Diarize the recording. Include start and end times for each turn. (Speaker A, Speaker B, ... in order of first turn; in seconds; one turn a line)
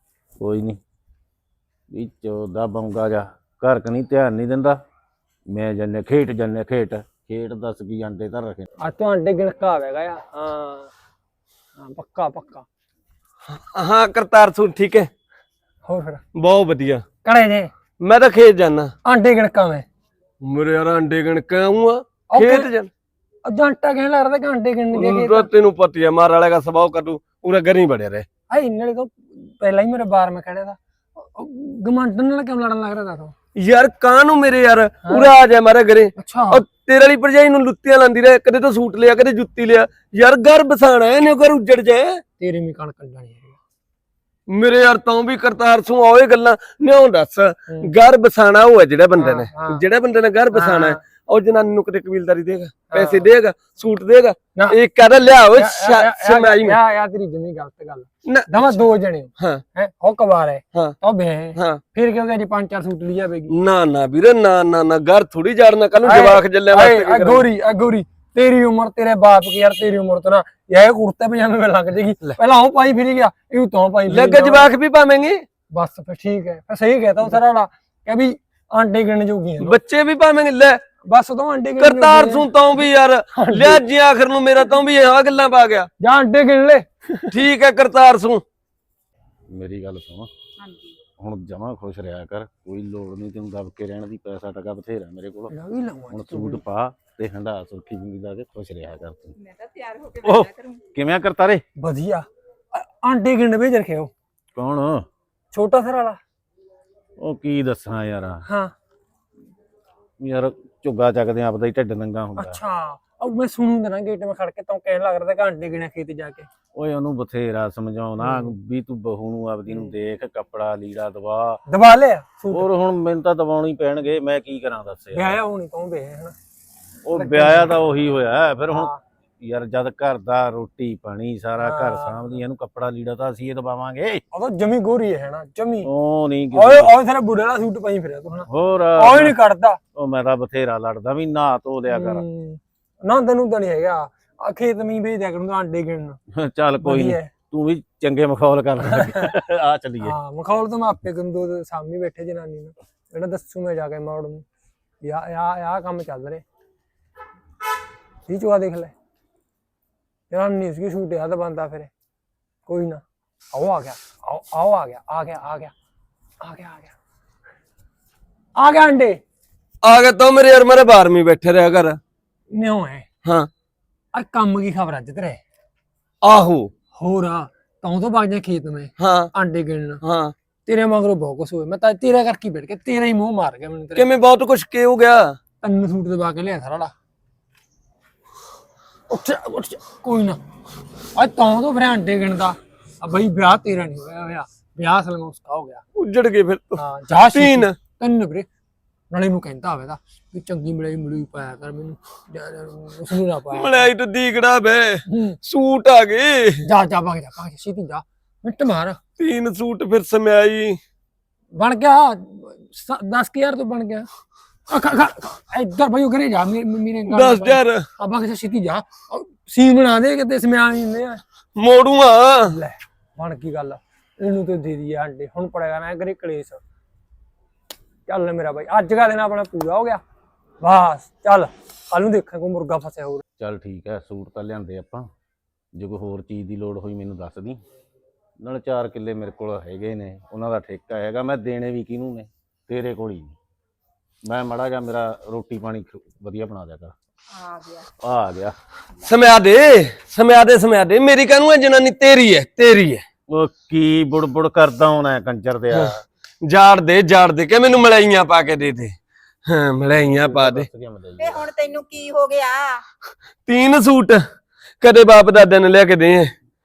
Speaker A: 0.4-0.8
Speaker A: 1.9-4.8
Speaker A: 5.5-8.7
Speaker B: 8.8-10.9
Speaker B: 11.8-12.7
Speaker C: 13.5-15.1
Speaker B: 15.9-16.2
Speaker C: 16.4-17.1
Speaker B: 17.2-17.7
Speaker C: 18.0-18.9
Speaker B: 19.1-19.9
Speaker C: 20.4-22.9
Speaker B: 22.3-22.7
Speaker B: 23.4-25.5
Speaker C: 24.9-28.3
Speaker B: 28.5-33.3
Speaker C: 33.6-42.2
Speaker B: 35.0-35.3
Speaker B: 36.2-36.6
Speaker B: 42.4-43.6
Speaker C: 44.5-56.8
Speaker B: 49.2-49.8
Speaker B: 50.5-51.0
Speaker B: 52.9-53.2
Speaker B: 55.5-63.5
Speaker C: 58.3-58.7
Speaker C: 61.6-61.8
Speaker C: 63.5-67.5
Speaker B: 66.0-74.7
Speaker C: 74.1-75.5
Speaker B: 75.7-79.8
Speaker C: 79.6-80.8
Speaker B: 81.0-82.5
Speaker C: 81.8-85.9
Speaker B: 83.3-83.8
Speaker B: 86.0-87.4
Speaker C: 87.3-88.4
Speaker A: 89.5-90.3
Speaker D: 90.6-91.0
Speaker A: 91.2-95.5
Speaker B: 95.5-96.6
Speaker A: 96.1-99.4
Speaker D: 99.4-100.8
Speaker A: 100.2-101.6
Speaker B: 101.8-104.1
Speaker A: 104.5-105.1
Speaker B: 105.5-106.2
Speaker A: 107.2-108.5
Speaker B: 108.5-108.7
Speaker A: 110.2-112.6
Speaker B: 112.4-116.5
Speaker A: 116.8-121.6
Speaker B: 118.2-118.5
Speaker B: 121.7-122.7
Speaker A: 122.5-125.4
Speaker B: 125.2-126.3
Speaker A: 127.1-134.2
Speaker B: 127.2-127.7
Speaker B: 128.7-129.0
Speaker B: 131.6-132.3
Speaker B: 134.3-135.9
Speaker A: 135.8-136.9
Speaker B: 136.5-139.8
Speaker A: 138.5-139.4
Speaker A: 139.9-142.2
Speaker B: 141.9-146.2
Speaker A: 146.3-150.2
Speaker B: 146.8-147.3
Speaker B: 148.9-149.3
Speaker B: 150.0-154.4
Speaker B: 155.0-156.4
Speaker B: 158.3-158.9
Speaker B: 160.3-161.9
Speaker B: 162.7-165.7
Speaker B: 166.4-166.9
Speaker B: 168.6-169.2
Speaker C: 169.8-172.0
Speaker B: 172.5-173.1
Speaker C: 173.2-173.5
Speaker B: 174.1-175.4
Speaker C: 176.2-176.7
Speaker B: 176.9-180.0
Speaker C: 179.0-179.3
Speaker C: 180.0-180.3
Speaker B: 180.7-184.1
Speaker C: 183.9-185.4
Speaker B: 185.6-186.9
Speaker B: 189.1-190.4
Speaker B: 191.2-195.8
Speaker C: 196.0-197.8
Speaker B: 196.8-198.5
Speaker B: 199.1-203.9
Speaker C: 203.5-206.7
Speaker B: 205.1-205.4
Speaker B: 206.6-209.0
Speaker C: 209.2-210.8
Speaker B: 211.6-214.1
Speaker B: 214.7-221.2
Speaker C: 217.1-217.9
Speaker C: 221.6-222.6
Speaker B: 222.5-226.6
Speaker B: 228.1-230.0
Speaker B: 230.6-233.2
Speaker A: 233.4-235.1
Speaker A: 235.8-237.6
Speaker A: 238.4-243.4
Speaker A: 244.3-246.9
Speaker D: 247.3-247.9
Speaker A: 248.0-248.6
Speaker C: 249.1-253.1
Speaker A: 253.3-256.0
Speaker C: 255.7-258.9
Speaker C: 259.5-260.7
Speaker A: 260.0-261.5
Speaker D: 261.2-262.8
Speaker C: 263.5-264.2
Speaker C: 264.8-266.3